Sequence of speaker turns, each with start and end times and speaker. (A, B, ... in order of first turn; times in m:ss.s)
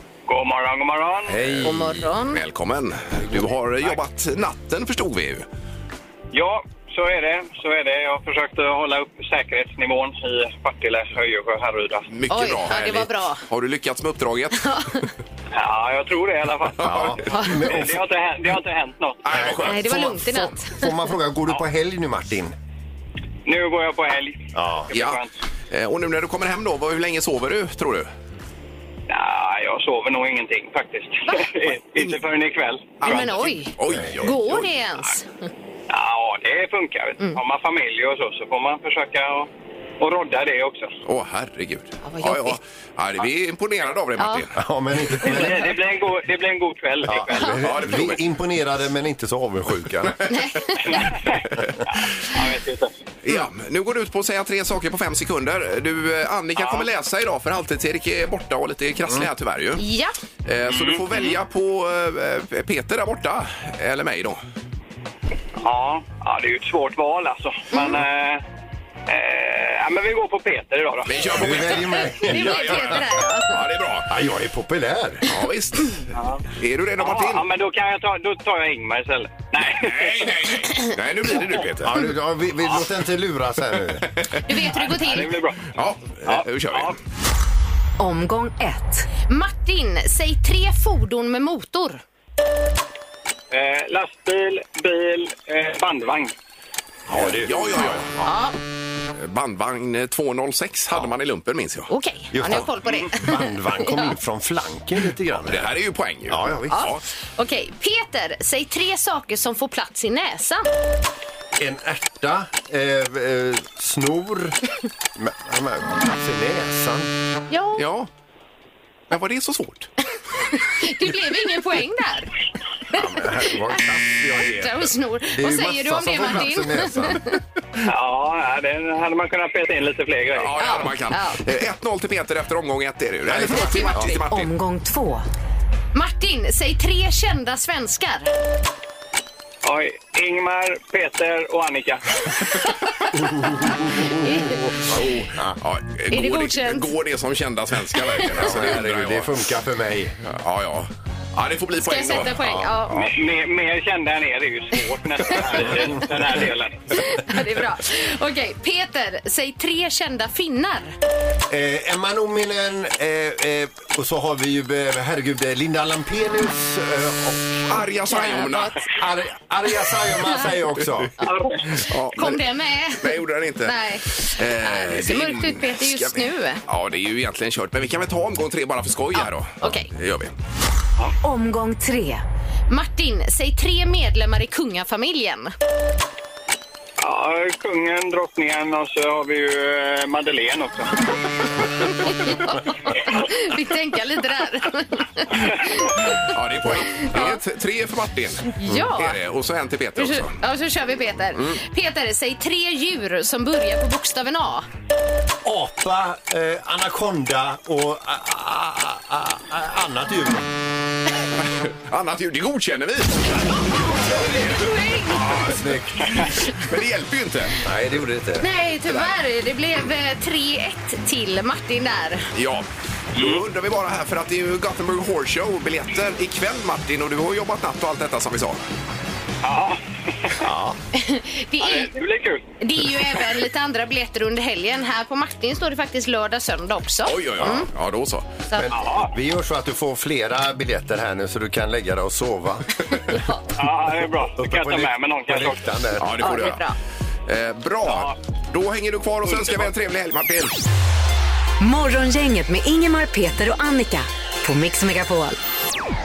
0:00.3-0:01.4 A
0:01.3-0:02.0 B
0:01.4-0:05.5 C
0:01.6-0:02.4 D
0:06.3-0:12.1 A
0:12.1-0:14.8 C
0:12.3-0:13.4 D
0:14.6-0:15.0 D
0:15.5-0:19.5 A
0:16.8-0:17.2 C
0:16.8-0:18.0 B
0:19.2-0:20.0 C
0:19.3-0:22.5 B
0:19.6-0:20.9 D
0:23.5-0:25.3 A
0:24.5-0:24.9 B
0:24.9-0:28.1 C
0:29.1-0:33.2 A
0:33.0-0:34.7 C
0:33.0-0:35.3 D
0:33.9-0:34.1 B
0:35.9-0:39.5 A
0:40.0-0:40.9 A
0:41.0-0:44.6 C
0:42.0-0:42.6 D
0:44.6-0:45.8 B
0:45.2-0:47.7 A
0:47.1-0:50.2 B
0:47.6-0:48.2 C
0:50.0-0:50.4 C
0:50.3-0:51.0 D
0:50.8-0:53.0 A
0:53.2-0:59.8 C
0:56.6-0:56.9 A
0:59.8-1:00.1 D
1:00.4-1:04.4 C
1:00.7-1:01.0 A
1:05.6-1:08.4 A
1:07.7-1:08.0 D
1:09.1-1:11.3 A
1:11.1-1:14.1 C
1:11.3-1:13.1 B
1:11.9-1:13.6 D
1:14.1-1:15.4 B
1:15.3-1:17.5 C
1:16.2-1:16.4 A
1:17.0-1:20.5 A
1:19.7-1:22.0 C
1:21.8-1:24.1 B
1:24.1-1:24.4 C
1:24.5-1:25.3 D
1:24.7-1:25.6 A
1:25.7-1:27.0 C
1:26.3-1:26.9 A
1:28.0-1:29.1 E
1:29.3-1:32.0 D
1:33.5-1:36.3 A
1:37.1-1:38.3 B
1:37.1-1:38.1 C
1:38.2-1:38.6 D
1:39.2-1:41.9 C
1:41.9-1:44.1 D
1:42.3-1:45.7 B
1:45.4-1:47.0 C
1:46.3-1:46.9 B
1:46.7-1:50.7 D
1:51.6-1:54.6 B
1:55.2-1:57.1 B
1:57.5-1:57.8 D
1:57.8-1:58.1 C
1:59.1-1:59.9 C
2:00.5-2:02.3 D
2:02.9-2:03.8 D
2:02.9-2:07.2 B
2:04.3-2:07.4 D
2:07.8-2:10.7 A
2:10.3-2:14.5 C
2:10.6-2:11.4 D
2:13.3-2:14.1 B
2:13.6-2:13.9 D
2:14.2-2:15.2 E
2:15.9-2:18.3 D
2:19.6-2:22.2 A
2:23.4-2:25.6 B
2:24.0-2:24.6 D
2:24.9-2:29.3 C
2:26.1-2:26.9 D
2:28.3-2:30.2 B
2:30.2-2:32.5 C
2:31.8-2:33.1 D
2:32.4-2:32.7 B
2:32.9-2:37.0 A
2:36.9-2:41.0 D
2:41.5-2:47.7 B
2:47.7-2:48.9 C
2:48.1-2:48.8 D
2:48.8-2:51.1 B
2:51.3-2:51.7 A
2:51.8-3:00.4 C
2:52.1-2:56.6 D
2:59.2-2:59.9 D
3:01.2-3:02.2 E
3:02.7-3:05.5 D
3:07.0-3:11.0 A
3:11.9-3:17.4 D
3:16.2-3:20.4 C
3:18.6-3:19.2 D
3:20.0-3:24.7 D
3:25.4-3:30.5 B
3:31.4-3:35.6 C
3:33.7-3:35.5 D
3:35.2-3:36.3 B
3:36.4-3:37.6 C
3:37.6-3:38.5 B
3:38.4-3:42.3 D
3:38.9-3:39.2 C
3:42.3-3:48.6 C
3:43.2-3:43.4 A
3:49.4-3:50.4 A
3:50.4-3:50.8 B
3:50.9-3:51.9 D
3:51.6-3:52.4 A
3:52.6-3:57.7 D
3:57.1-3:58.3 C
3:58.5-4:02.8 B
3:58.7-3:59.1 A
4:03.6-4:05.8 A
4:04.4-4:06.2 B
4:06.0-4:06.6 C
4:06.2-4:06.8 D
4:07.3-4:10.6 C
4:07.8-4:08.1 A
4:11.6-4:15.4 E